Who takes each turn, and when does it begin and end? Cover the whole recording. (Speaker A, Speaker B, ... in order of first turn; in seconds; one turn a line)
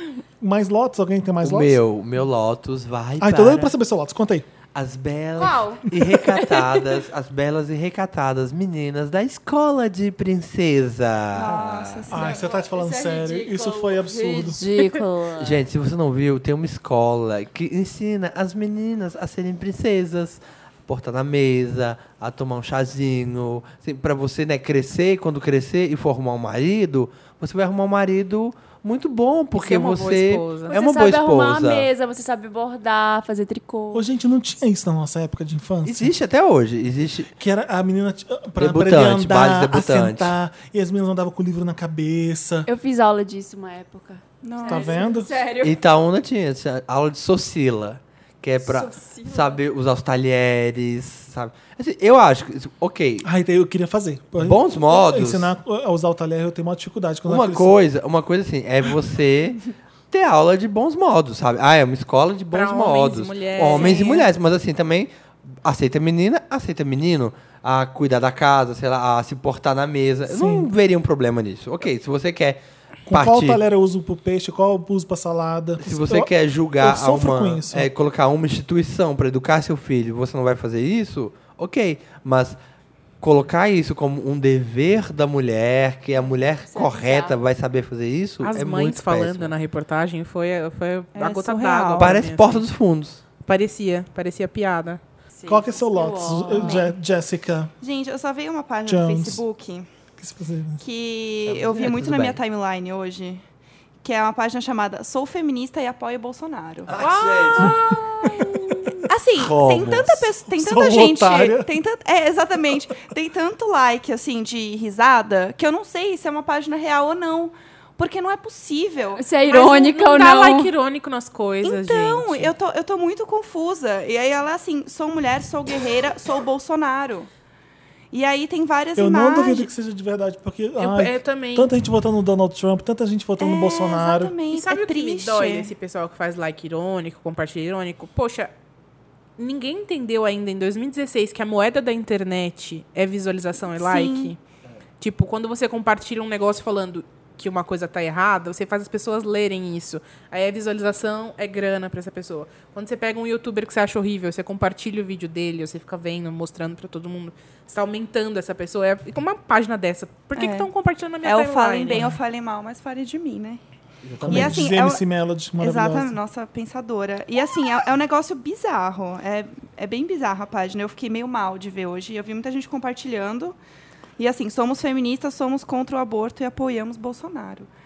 Speaker A: 0.4-1.8
Speaker B: 1.4-3.7
Speaker A: 3.2-4.5
Speaker B: 4.7-12.1
Speaker C: 5.4-6.9
Speaker D: 11.3-12.5
Speaker A: 12.1-14.6
Speaker C: 12.2-15.6
Speaker B: 15.4-31.9
Speaker E: 29.6-30.8
Speaker C: 30.7-34.1
Speaker A: 33.9-36.1
Speaker B: 35.9-37.3
Speaker A: 37.4-42.7
Speaker B: 38.6-40.3
Speaker C: 42.7-45.8
Speaker D: 44.4-45.0
Speaker A: 44.7-45.5
Speaker B: 45.6-53.2
Speaker C: 48.6-49.6
Speaker A: 53.2-57.8
Speaker B: 54.4-55.5
Speaker B: 57.3-65.1
Speaker E: 62.5-64.3
Speaker B: 65.6-73.6
Speaker A: 70.3-70.7
Speaker A: 73.1-77.9
Speaker B: 75.8-82.6
Speaker B: 83.2-89.5
Speaker C: 86.2-87.4
Speaker E: 88.4-92.7
Speaker D: 91.2-92.2
Speaker B: 92.0-93.2
Speaker E: 93.5-95.0
Speaker C: 95.3-96.9
Speaker A: 95.5-97.7
Speaker D: 96.5-96.9
Speaker D: 97.8-99.9
Speaker A: 98.8-99.4
Speaker A: 100.2-100.8
Speaker D: 100.8-103.4
Speaker B: 101.5-102.4
Speaker D: 104.0-107.0
Speaker B: 106.9-107.8
Speaker E: 107.0-107.7
Speaker A: 107.6-108.6
Speaker C: 107.7-108.3
Speaker D: 109.1-119.2
Speaker B: 109.3-110.2
Speaker A: 110.5-111.7
Speaker C: 119.2-120.7
Speaker E: 119.5-122.5
Speaker D: 121.6-127.3
Speaker D: 128.1-129.7
Speaker A: 129.0-134.3
Speaker E: 130.8-131.7
Speaker D: 133.4-135.7
Speaker E: 134.5-138.5
Speaker E: 139.4-144.4
Speaker D: 143.7-144.3
Speaker E: 145.0-162.1
Speaker D: 160.3-160.7
Speaker D: 161.2-163.6
Speaker B: 164.1-164.7
Speaker A: 164.2-166.2
Speaker D: 164.2-165.0
Speaker D: 165.6-173.6
Speaker D: 174.2-177.7